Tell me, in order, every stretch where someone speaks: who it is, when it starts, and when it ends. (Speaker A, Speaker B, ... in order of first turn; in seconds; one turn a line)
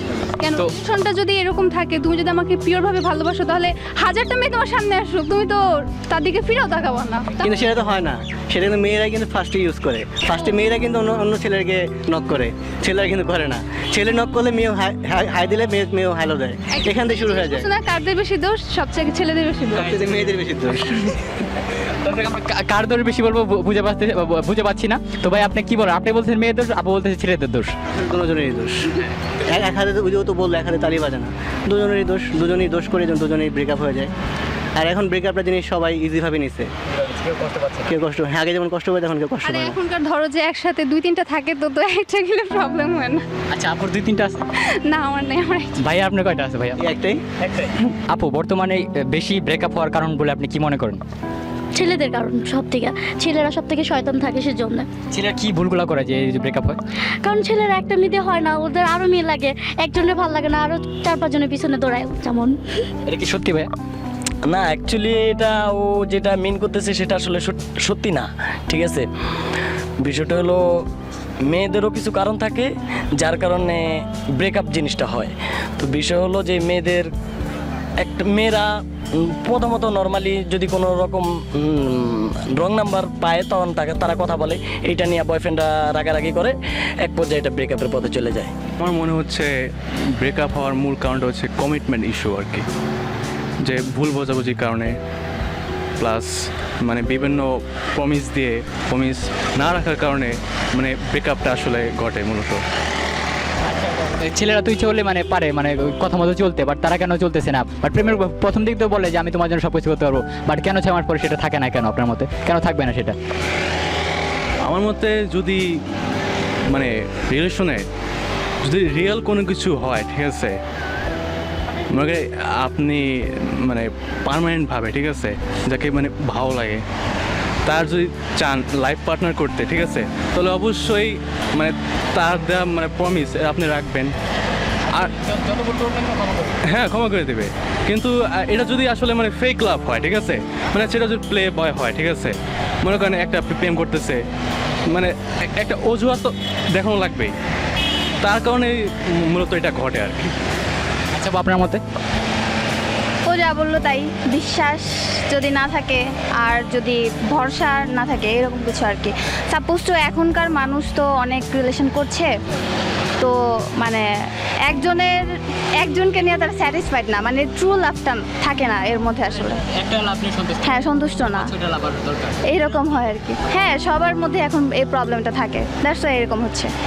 Speaker A: 0.4-7.4
Speaker B: 7.4-17.7
Speaker A: 16.7-19.9
Speaker B: 19.7-21.1
Speaker C: 22.0-27.7
Speaker B: 27.9-28.8
Speaker B: 29.4-34.1
Speaker B: 34.8-36.7
Speaker C: 36.9-37.9
Speaker B: 37.9-39.8
Speaker A: 39.4-43.2
Speaker C: 43.5-44.4
Speaker A: 44.9-45.8
Speaker C: 45.8-46.8
Speaker B: 46.8-47.2
Speaker C: 47.4-51.0
Speaker D: 51.7-54.9
Speaker C: 55.1-56.8
Speaker D: 57.2-62.5
Speaker C: 63.1-63.7
Speaker E: 64.5-69.0
Speaker E: 70.0-70.6
Speaker E: 71.5-72.7
Speaker E: 73.2-73.8
Speaker E: 74.4-75.3
Speaker E: 75.8-77.0
Speaker E: 78.0-78.7
Speaker E: 79.4-81.2
Speaker E: 82.6-86.5
Speaker E: 87.0-88.5
Speaker F: 88.8-89.5
Speaker F: 90.2-92.7
Speaker F: 93.6-94.9
Speaker F: 96.0-102.6
Speaker C: 103.6-113.1
Speaker F: 114.6-115.6
Speaker F: 116.7-117.8
Speaker F: 118.6-120.6
Speaker F: 121.9-123.0
Speaker F: 123.7-126.8
Speaker F: 127.7-134.1
Speaker C: 135.0-136.6
Speaker F: 136.7-144.2
Speaker F: 144.9-147.3
Speaker F: 148.2-148.7
Speaker F: 149.3-150.3
Speaker C: 151.1-151.8
Speaker G: 153.2-162.3
Speaker G: 163.2-164.1
Speaker G: 164.7-169.6
Speaker C: 169.3-172.5
Speaker G: 170.6-171.5
Speaker G: 172.5-176.7